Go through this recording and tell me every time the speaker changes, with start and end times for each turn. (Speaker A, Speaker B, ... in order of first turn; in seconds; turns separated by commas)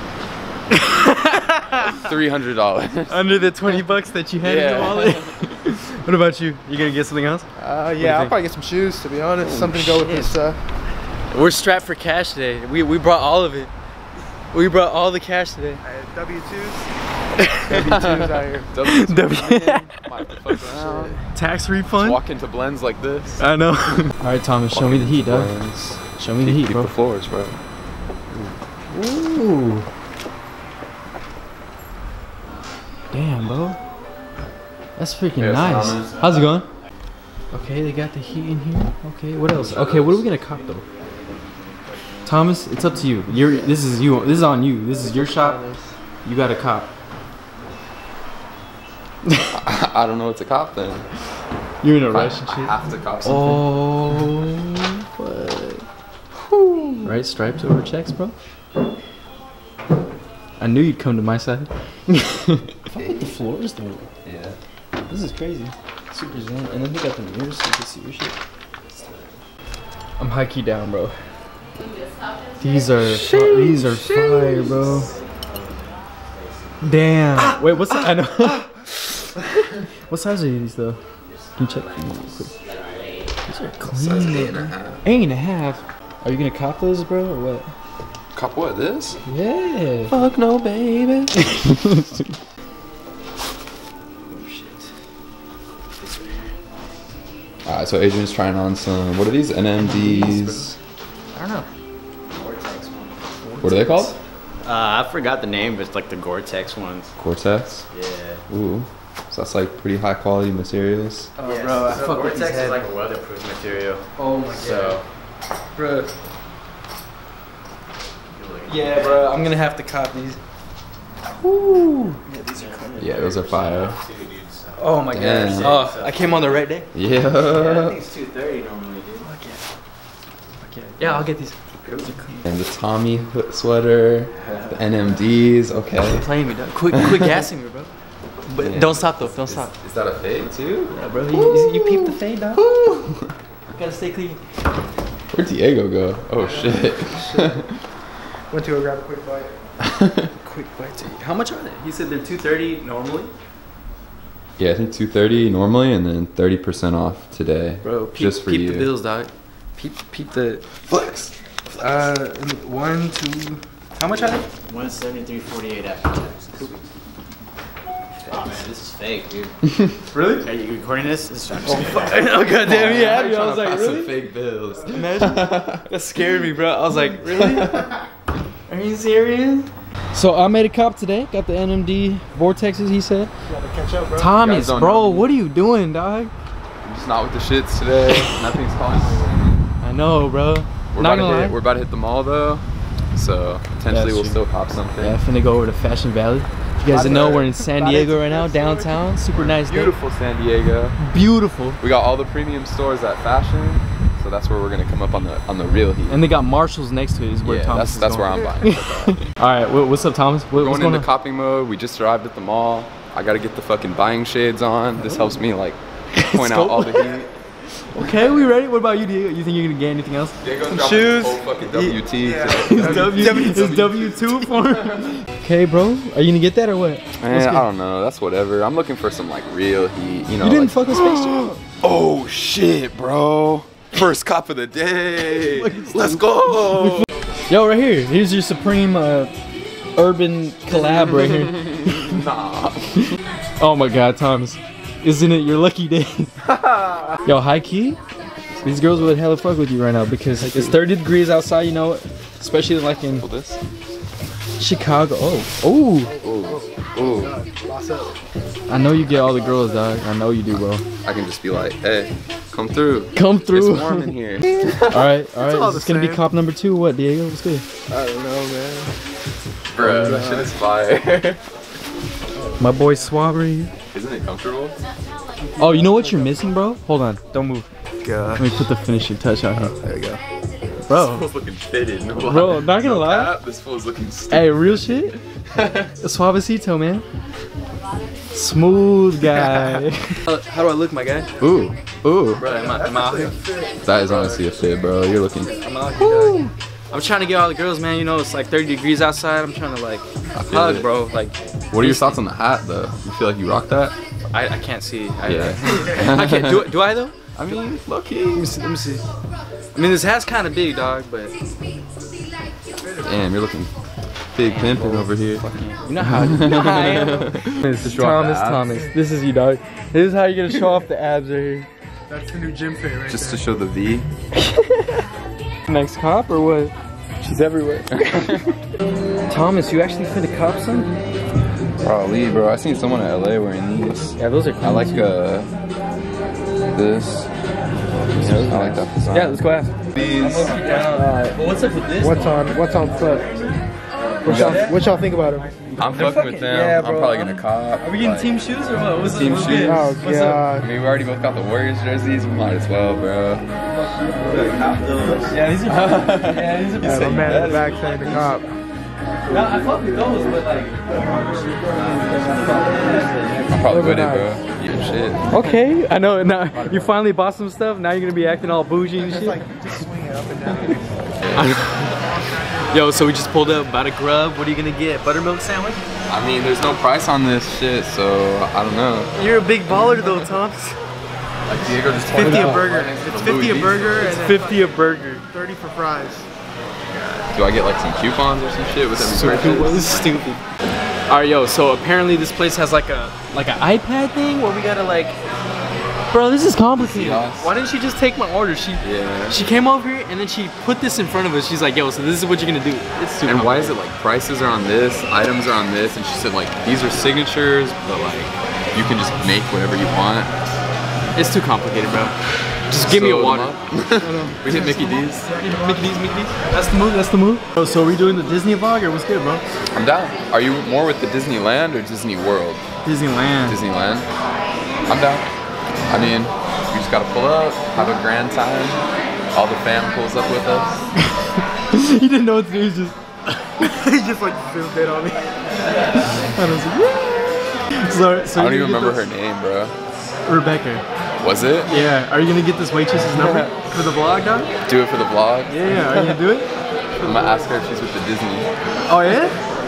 Speaker A: 0.7-2.0, Speaker B: 1.8-3.8, Speaker A: 3.1-7.5, Speaker B: 4.4-5.4, Speaker C: 7.6-10.6, Speaker A: 8.0-8.3, Speaker B: 9.4-10.0, Speaker A: 9.9-10.4, Speaker A: 11.3-13.7, Speaker A: 14.5-15.8, Speaker C: 15.8-16.9, Speaker A: 17.4-17.8, Speaker C: 17.6-18.7, Speaker B: 17.8-21.2, Speaker A: 18.8-20.6, Speaker C: 20.7-21.2, Speaker A: 21.3-22.2, Speaker B: 22.0-23.4, Speaker A: 23.4-25.5, Speaker B: 24.7-27.6, Speaker A: 26.2-26.9, Speaker A: 28.9-29.9, Speaker A: 33.1-33.8, Speaker A: 35.0-36.7, Speaker B: 35.4-36.1, Speaker A: 37.5-40.8, Speaker B: 39.5-40.2, Speaker A: 42.2-45.6, Speaker C: 45.0-45.9, Speaker A: 46.2-46.9, Speaker A: 49.2-49.5, Speaker B: 49.5-51.0, Speaker A: 51.8-55.8, Speaker B: 52.1-53.6, Speaker B: 56.5-57.1, Speaker A: 57.0-58.3, Speaker A: 60.6-64.1, Speaker B: 62.9-63.3, Speaker B: 64.2-64.6, Speaker A: 65.0-68.3, Speaker B: 69.0-69.2, Speaker A: 70.2-71.1, Speaker A: 72.6-75.1, Speaker B: 73.0-74.8, Speaker D: 74.8-75.7, Speaker A: 76.8-79.1, Speaker A: 80.1-81.0, Speaker A: 81.6-82.5, Speaker B: 82.0-82.5, Speaker A: 83.5-87.7, Speaker B: 83.9-85.0, Speaker B: 88.3-89.2, Speaker A: 89.2-92.2, Speaker A: 94.3-94.9, Speaker B: 97.6-100.7, Speaker A: 99.8-100.7, Speaker A: 101.3-101.7, Speaker D: 102.3-103.2, Speaker A: 103.4-104.2, Speaker B: 103.6-104.1, Speaker D: 104.6-107.1, Speaker B: 107.2-107.8, Speaker D: 107.9-108.4, Speaker B: 108.5-111.3, Speaker A: 111.4-112.9, Speaker D: 111.4-115.0, Speaker A: 114.2-115.0, Speaker A: 115.8-116.1, Speaker D: 118.3-119.3, Speaker A: 118.7-120.4, Speaker A: 121.4-123.0, Speaker D: 122.3-125.0, Speaker B: 123.0-124.0, Speaker A: 124.8-126.9, Speaker B: 125.1-125.8, Speaker D: 125.5-126.5, Speaker B: 126.9-128.0, Speaker D: 127.4-129.3, Speaker A: 129.2-129.6, Speaker A: 130.6-132.5, Speaker B: 132.4-136.3, Speaker D: 134.4-134.7, Speaker A: 136.0-137.9, Speaker B: 136.9-137.4, Speaker A: 138.4-139.7, Speaker B: 138.6-143.3, Speaker A: 140.9-142.7, Speaker A: 143.7-144.4, Speaker B: 145.3-147.8, Speaker C: 146.4-147.6, Speaker C: 148.5-149.6, Speaker B: 149.8-150.3, Speaker A: 150.4-153.3, Speaker B: 154.6-158.9, Speaker A: 157.8-160.6, Speaker B: 160.8-161.3, Speaker A: 161.7-164.4, Speaker D: 164.7-166.8, Speaker D: 168.3-169.5, Speaker A: 170.1-170.5, Speaker D: 170.4-172.4, Speaker A: 171.6-174.1, Speaker B: 172.5-175.8, Speaker A: 174.9-177.9, Speaker B: 177.3-177.9, Speaker A: 178.7-183.3, Speaker C: 183.4-184.4, Speaker A: 184.2-186.3, Speaker B: 184.4-185.3, Speaker B: 186.8-189.6, Speaker A: 188.1-188.4, Speaker A: 189.8-191.6, Speaker B: 190.9-195.2, Speaker A: 193.9-194.4, Speaker A: 194.9-199.9, Speaker C: 196.9-199.2, Speaker B: 197.0-197.5, Speaker B: 199.3-201.0, Speaker A: 201.0-201.8, Speaker B: 201.8-206.2, Speaker A: 206.1-211.1, Speaker B: 207.4-209.2, Speaker B: 210.6-217.3, Speaker A: 216.2-217.2, Speaker A: 217.9-220.4, Speaker B: 217.9-218.3, Speaker B: 220.4-225.1, Speaker C: 220.7-224.0, Speaker A: 222.6-227.7, Speaker B: 227.2-237.1, Speaker A: 230.4-231.5, Speaker A: 235.3-236.9, Speaker A: 237.5-239.3, Speaker A: 239.9-242.2, Speaker B: 240.7-243.1, Speaker A: 243.6-246.3, Speaker B: 246.4-247.2, Speaker A: 247.2-248.0, Speaker B: 248.5-249.2, Speaker A: 248.6-253.3, Speaker B: 253.1-253.6, Speaker A: 254.6-256.1, Speaker C: 256.0-258.2, Speaker B: 256.2-257.3, Speaker A: 258.7-260.8, Speaker C: 258.8-259.9, Speaker B: 261.0-265.1, Speaker A: 263.1-264.1, Speaker A: 264.9-267.6, Speaker C: 265.4-266.3, Speaker C: 267.9-268.9, Speaker B: 269.7-271.4, Speaker C: 269.8-270.5, Speaker C: 272.4-272.6, Speaker A: 272.6-273.7, Speaker B: 273.9-274.8, Speaker C: 275.4-276.4, Speaker A: 275.6-277.7, Speaker C: 278.0-278.4, Speaker A: 278.4-279.7, Speaker C: 279.6-280.2, Speaker A: 280.8-281.3, Speaker B: 280.9-286.0, Speaker A: 282.2-283.3, Speaker A: 284.3-285.1, Speaker A: 286.0-287.0, Speaker A: 288.3-291.3, Speaker B: 291.4-292.4, Speaker A: 292.4-293.4, Speaker C: 292.5-294.4, Speaker B: 293.8-296.5, Speaker A: 295.4-302.2, Speaker B: 300.3-300.9, Speaker B: 301.7-303.9, Speaker A: 304.3-307.1, Speaker B: 305.2-306.7, Speaker B: 307.4-308.5, Speaker A: 308.3-309.0, Speaker A: 309.7-311.3, Speaker B: 313.0-313.7, Speaker B: 314.3-315.4, Speaker A: 314.5-321.7, Speaker B: 316.0-318.7, Speaker C: 322.1-323.4, Speaker B: 323.1-324.1, Speaker A: 324.4-325.0, Speaker A: 325.7-326.7, Speaker A: 327.3-327.9, Speaker B: 327.9-328.4, Speaker A: 329.3-331.0, Speaker B: 331.8-335.5, Speaker A: 334.1-335.1, Speaker B: 336.7-337.3, Speaker A: 338.1-343.5, Speaker B: 338.1-339.4, Speaker B: 339.9-340.5, Speaker C: 340.8-341.4, Speaker C: 342.0-343.3, Speaker A: 344.2-344.8, Speaker C: 344.2-345.5, Speaker B: 344.2-344.6, Speaker A: 345.7-350.5, Speaker B: 345.8-348.3, Speaker B: 349.1-349.9, Speaker C: 349.5-350.7, Speaker B: 350.6-353.4, Speaker B: 355.0-358.4, Speaker A: 355.3-357.6, Speaker C: 356.8-358.5, Speaker A: 359.3-363.9, Speaker B: 363.4-365.6, Speaker C: 363.7-364.3, Speaker A: 365.3-369.4, Speaker C: 368.9-371.2, Speaker B: 371.2-371.6, Speaker A: 371.3-372.0, Speaker C: 371.9-372.9, Speaker A: 372.7-375.8, Speaker B: 376.1-379.1, Speaker A: 379.1-380.8, Speaker C: 379.7-380.2, Speaker B: 381.5-384.2, Speaker A: 381.8-382.9, Speaker C: 382.1-384.7, Speaker A: 383.9-385.2, Speaker C: 385.3-386.3, Speaker B: 387.3-390.0, Speaker A: 388.9-390.4, Speaker A: 391.1-395.2, Speaker A: 396.1-403.8, Speaker B: 396.8-397.5, Speaker B: 398.8-399.4, Speaker B: 403.2-410.3, Speaker A: 411.1-412.1, Speaker A: 412.7-419.4, Speaker B: 412.7-415.3, Speaker C: 415.3-415.8, Speaker B: 419.7-422.6, Speaker A: 422.8-423.6, Speaker B: 423.5-424.1, Speaker B: 424.9-425.2, Speaker B: 425.9-428.8, Speaker B: 429.3-430.9, Speaker A: 431.0-434.0, Speaker C: 433.9-435.3, Speaker A: 435.7-439.0, Speaker B: 438.3-439.7, Speaker A: 440.2-440.8, Speaker B: 441.2-441.7, Speaker A: 441.7-444.5, Speaker B: 443.1-443.5, Speaker B: 444.6-446.1, Speaker A: 445.5-447.3, Speaker B: 447.0-448.5, Speaker A: 448.9-449.4